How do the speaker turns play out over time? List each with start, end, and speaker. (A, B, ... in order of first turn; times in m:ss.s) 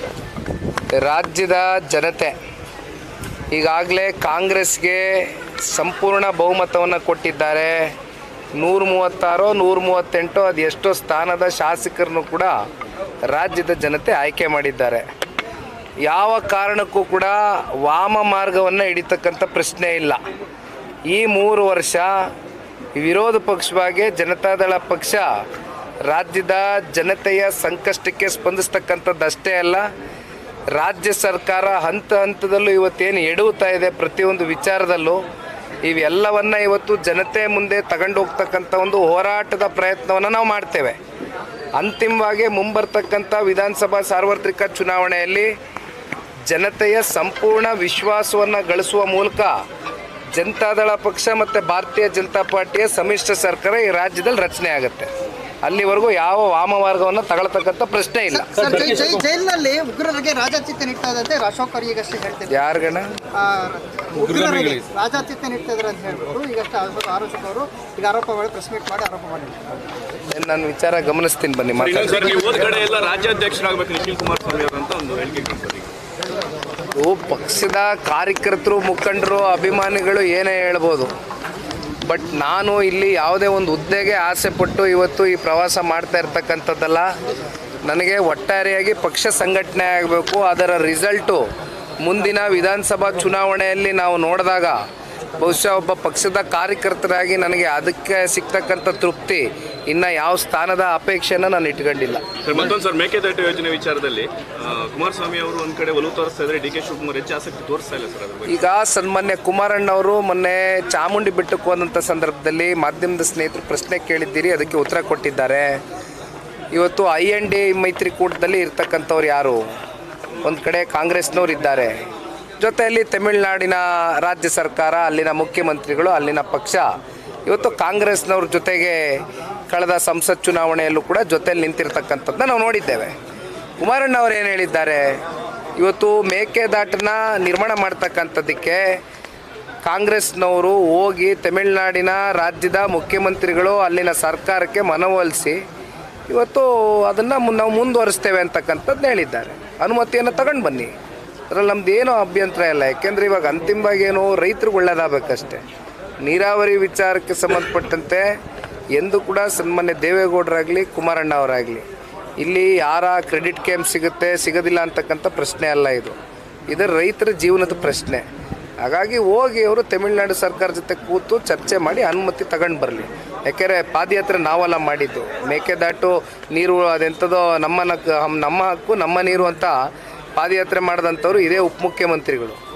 0:00.9-0:02.3 A
0:03.5-0:07.9 A
0:08.6-0:12.5 A
0:13.3-0:15.0 A
0:16.0-0:20.2 A
0:21.1-0:22.3 A
0:22.9-0:25.3 A
0:26.1-0:29.9 A
0:30.7-0:35.2 A
0:35.8-0:41.0 A
0:41.8-0:45.5 A
0:46.5-0:49.6 A
0:50.3-0:55.1 A
0:55.6-0:58.5 A
0:58.3-1:02.6 B
1:02.5-1:03.1 A
1:03.3-1:09.7 B
1:04.3-1:04.8 C
1:10.3-1:12.6 A
1:11.8-1:15.9 C
1:16.9-1:21.1 A
1:22.0-1:27.1 A
1:27.8-1:31.4 A
1:32.0-1:34.8 A
1:35.4-1:42.3 A
1:42.4-1:48.6 C
1:48.5-1:55.8 A
1:56.7-1:59.7 A
2:00.4-2:01.9 A
2:02.6-2:06.9 A
2:07.4-2:13.1 A
2:13.8-2:15.2 A
2:15.8-2:19.0 A
2:19.8-2:25.6 A
2:26.3-2:30.9 A
2:31.5-2:35.6 A
2:36.2-2:38.2 A
2:38.9-2:41.8 A
2:42.4-2:46.2 A
2:46.7-2:48.2 A
2:48.8-2:59.8 A
3:00.4-3:02.6 A